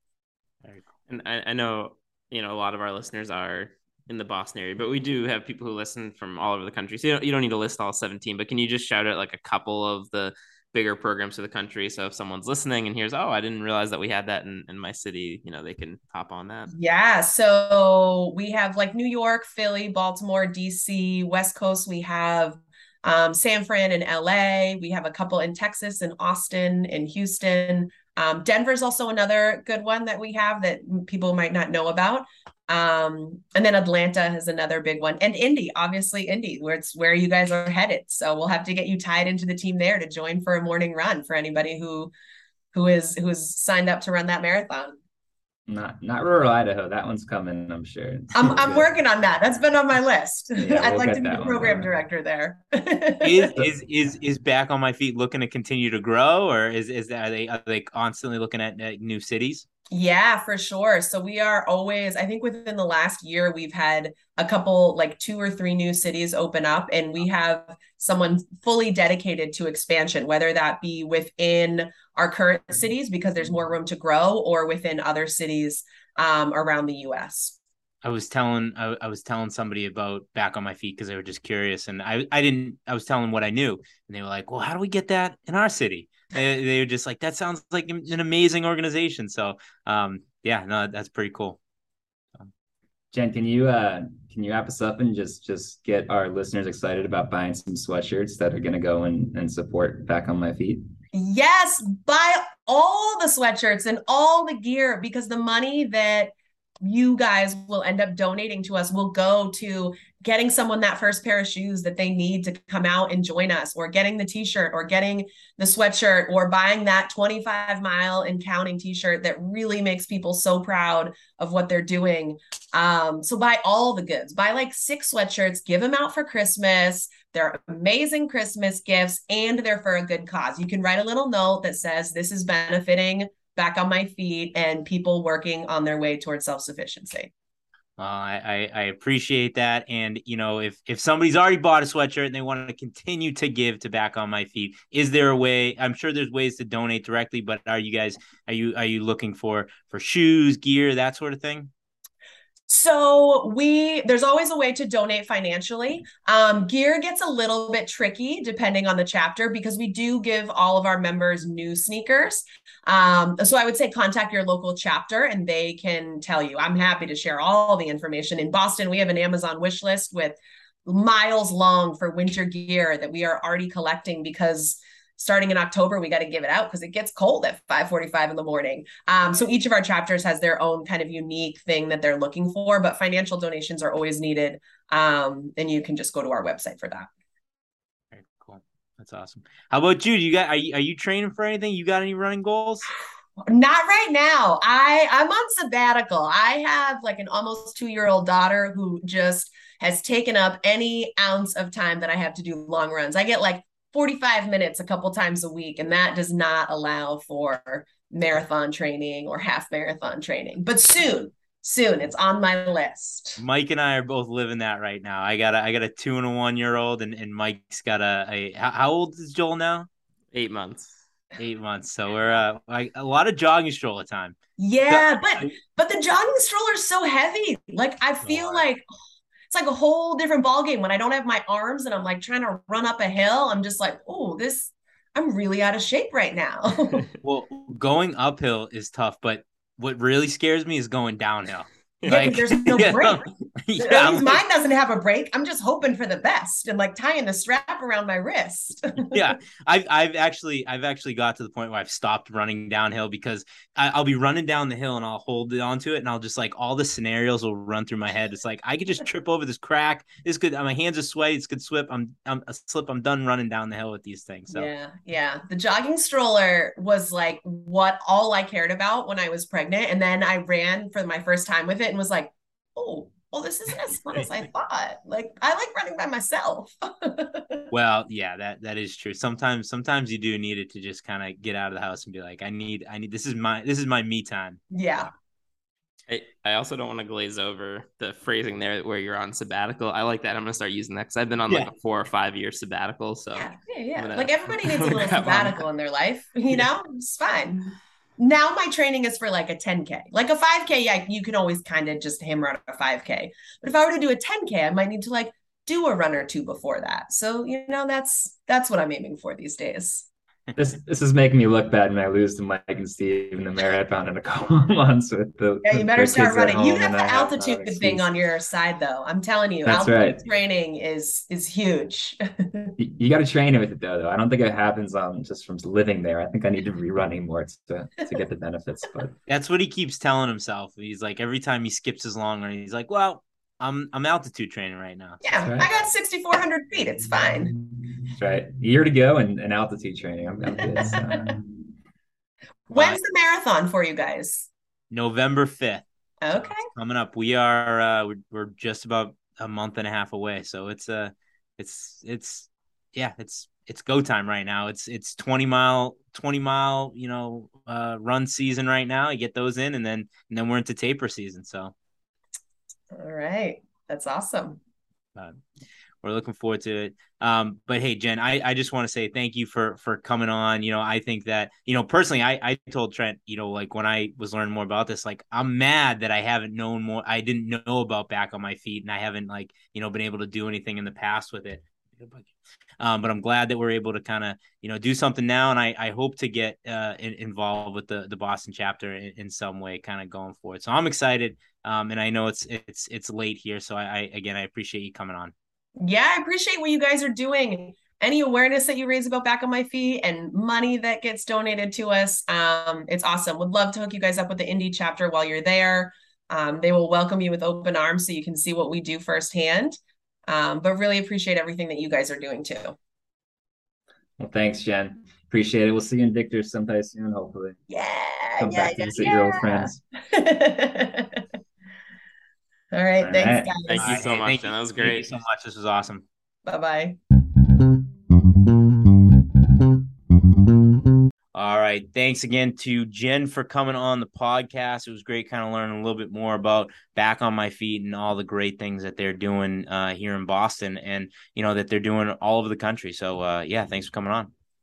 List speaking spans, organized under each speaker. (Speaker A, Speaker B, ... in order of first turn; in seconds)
Speaker A: 1.1-16.7, 220.3-220.9, 286.1-295.6, 423.6-425.1
Speaker B: 16.7-42.1, 42.7-45.0, 48.3-53.6, 59.9-77.5, 101.1-137.3, 152.7-187.1, 193.4-213.4, 224.6-228.8, 229.5-237.1, 242.1-243.2, 243.8-249.3, 264.5-277.7, 284.7-285.1, 293.3-310.1, 315.6-322.8, 335.2-337.5, 340.8-341.2, 342.7-344.5, 346.2-346.6, 362.9-364.6, 395.8-412.8, 417.7-421.2, 422.7-424.0, 426.4-427.0
Speaker C: 45.7-48.9, 50.6-51.9, 93.1-100.9, 310.6-318.1, 319.6-320.2, 322.8-329.1, 335.3-335.7, 338.1-341.4, 414.2-417.6, 418.4-419.8, 423.0-423.5
Speaker D: 53.2-59.6, 78.0-91.6, 138.0-151.7, 188.1-192.9, 213.4-219.9, 221.4-225.6, 228.2-228.7, 237.2-244.4, 249.0-264.7, 277.7-285.0, 329.3-335.2, 342.7-343.0, 344.9-361.7, 365.1-365.4, 366.0-395.3, 423.8-426.1, 431.3-444.3